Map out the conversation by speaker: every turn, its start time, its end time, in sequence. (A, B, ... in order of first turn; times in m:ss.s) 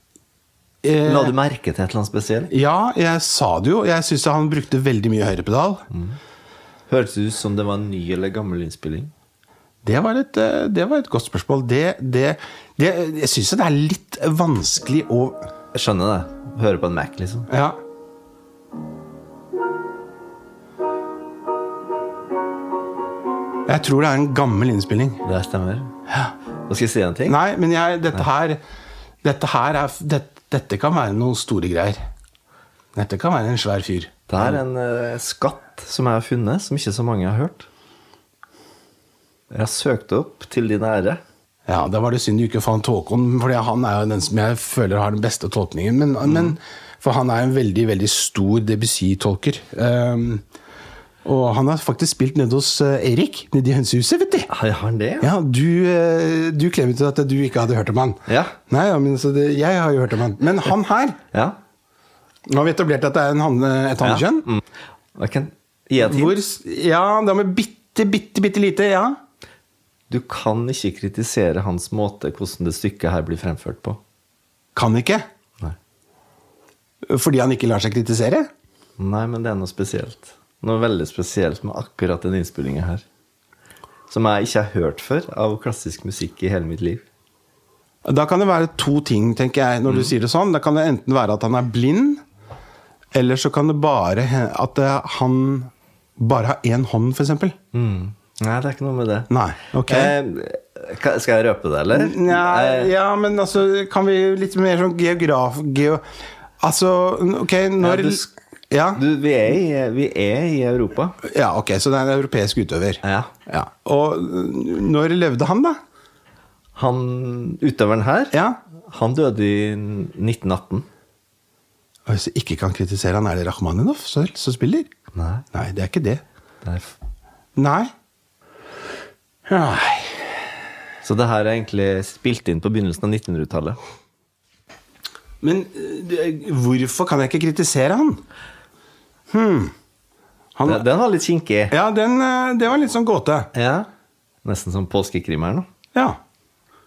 0:00.8-0:01.4 A
0:01.0-0:02.5 B
0:02.5-0:05.8 A
0:06.9-0:09.1 B
0:09.8-0:15.5 A
0:15.7-0:17.5 B
0:17.5-0:17.8 A
0:23.7-0:25.2 A
0:25.2-0:25.9 B
0:26.7-0:27.4 B
0:27.3-0:28.6 A
0:29.2-0:32.0 A
0:33.0-0:34.6 A
0:34.3-0:37.7 B
0:39.5-0:41.2 B
0:41.7-0:50.4 A
0:46.3-0:46.6 B
0:51.2-0:54.5 A
0:54.5-0:55.3 B
0:55.2-1:01.2 A
0:58.3-0:58.6 B
1:02.5-1:04.5 A
1:04.0-1:04.6 B
1:05.2-1:06.4 B
1:06.0-1:09.2 A
1:10.1-1:14.0 B
1:14.8-1:15.2 A
1:17.1-1:18.5 A
1:19.0-1:23.0 B
1:24.1-1:27.0 B
1:28.0-1:32.2 A
1:29.9-1:30.1 B
1:33.1-1:37.6 A
1:37.7-1:39.3 B
1:39.3-1:40.2 A
1:39.9-1:42.9 B
1:41.9-1:46.0 A
1:46.6-1:49.0 A
1:47.8-1:48.3 B
1:49.0-1:51.2 B
1:51.2-1:55.8 A
1:53.0-1:53.3 B
1:56.8-1:58.4 B
1:58.3-1:58.6 A
1:58.9-2:00.9 B
2:02.1-2:04.9 A
2:05.2-2:05.4 B
2:05.5-2:06.2 A
2:06.6-2:06.9 B
2:07.6-2:07.9 A
2:09.5-2:10.4 A
2:11.0-2:13.8 B
2:15.4-2:18.2 A
2:19.3-2:19.7 A
2:20.6-2:20.8 A
2:20.7-2:21.8 B
2:21.7-2:23.5 A
2:23.5-2:23.9 B
2:24.4-2:25.7 B